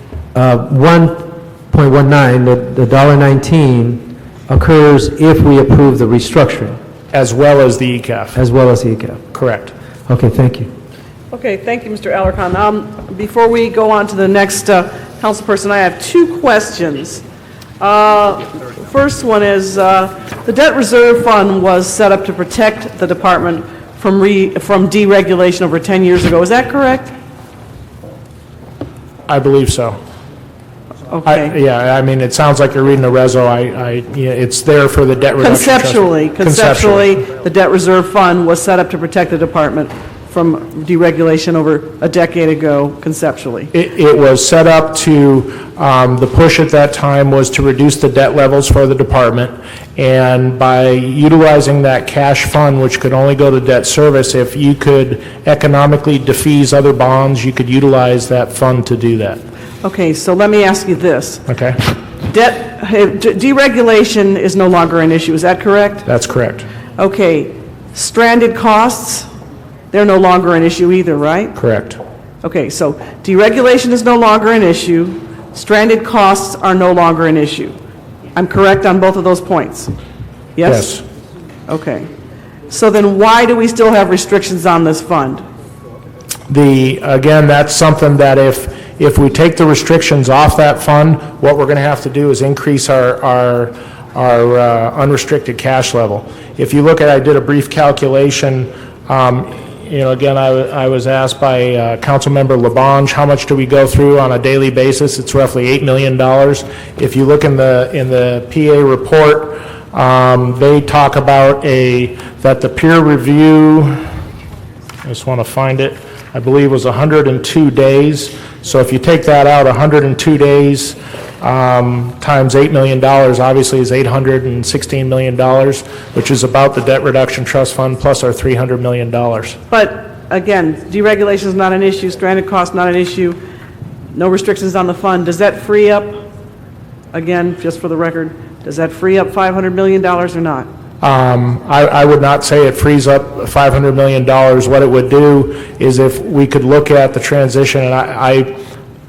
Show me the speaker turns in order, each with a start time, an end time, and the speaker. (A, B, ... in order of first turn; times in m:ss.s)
0:00.3-0:06.8 A
0:07.1-0:08.4 B
0:08.3-0:09.2 A
0:09.3-0:09.7 B
0:10.1-0:10.7 A
0:11.3-0:17.2 C
0:17.8-0:27.1 C
0:29.3-0:30.0 B
0:31.1-0:31.6 C
0:31.2-0:37.2 B
0:35.4-0:43.7 C
0:43.7-0:59.4 B
0:59.8-1:01.4 C
1:01.5-1:01.8 B
1:02.3-1:06.1 C
1:06.0-1:06.6 B
1:07.0-1:09.3 C
1:09.9-1:11.5 C
1:11.6-1:12.0 B
1:12.4-1:17.8 C
1:18.3-1:19.9 C
1:20.6-1:20.9 C
1:20.6-1:21.0 B
1:21.7-1:22.1 C
1:22.7-1:25.4 C
1:26.5-1:54.0 B
1:55.0-2:09.6 B
2:09.7-2:13.4 C
2:14.1-2:16.2 C
2:17.1-2:20.7 C
2:21.0-2:28.5 B